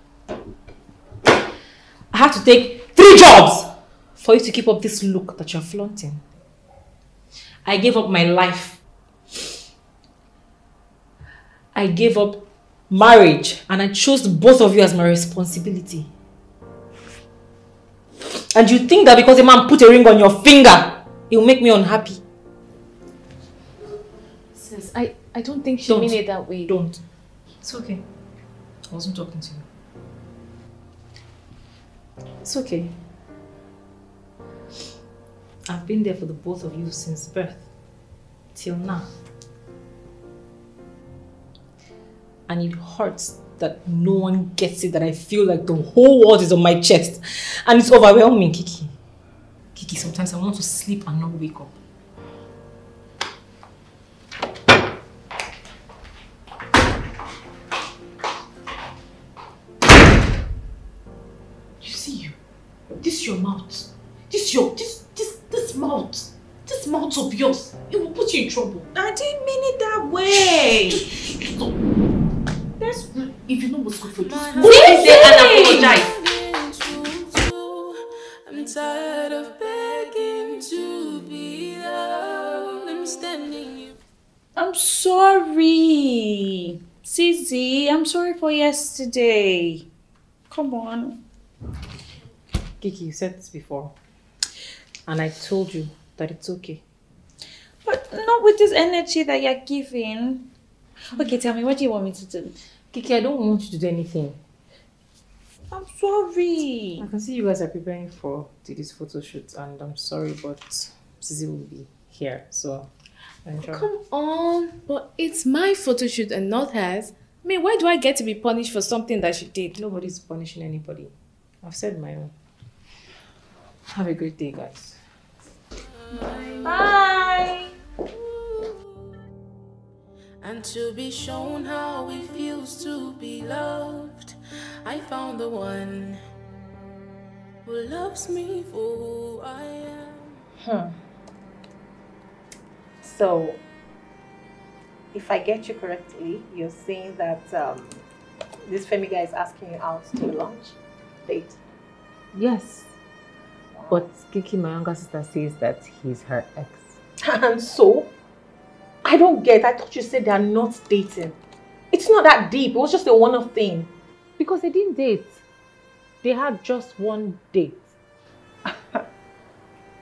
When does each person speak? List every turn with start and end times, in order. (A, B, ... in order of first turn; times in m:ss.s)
0:02.1-0:06.2 A
0:07.6-0:08.8 A
0:11.7-0:16.1 A
0:18.5-0:22.2 A
0:24.6-0:26.7 B
0:25.9-0:27.0 A
0:27.6-0:28.0 A
0:28.9-0:29.6 A
0:32.4-0:33.0 A
0:35.7-0:37.7 A
0:38.5-0:39.1 A
0:42.5-0:48.9 A
0:49.8-0:51.7 A
1:01.8-1:02.3 B
1:03.0-1:08.9 B
1:08.9-1:11.0 C
1:10.3-1:11.8 B
1:12.8-1:16.0 B
1:14.2-1:24.0 D
1:14.6-1:16.0 C
1:24.6-1:29.9 C
1:30.5-1:31.2 C
1:32.8-1:33.9 A
1:35.1-1:36.8 A
1:37.8-1:40.5 C
1:41.1-1:42.6 C
1:42.9-1:44.4 A
1:45.7-1:47.1 C
1:47.0-1:52.9 A
1:53.5-1:53.9 A
1:53.6-1:59.8 B
1:59.8-2:01.1 A
2:01.6-2:02.3 A
2:03.9-2:05.0 A
2:06.3-2:06.6 E
2:06.6-2:07.7 C
2:10.4-2:16.2 D
2:17.6-2:20.4 D
2:20.6-2:21.0 E
2:23.0-2:23.6 E
2:25.1-2:28.0 E
2:28.7-2:31.6 E
2:32.3-2:32.9 A
2:33.7-2:34.1 E
2:33.9-2:36.9 A
2:37.2-2:38.1 E
2:39.0-2:41.4 E
2:41.9-2:43.9 E
2:44.4-2:45.4 A
2:46.2-2:47.9 A
2:48.7-2:49.0 E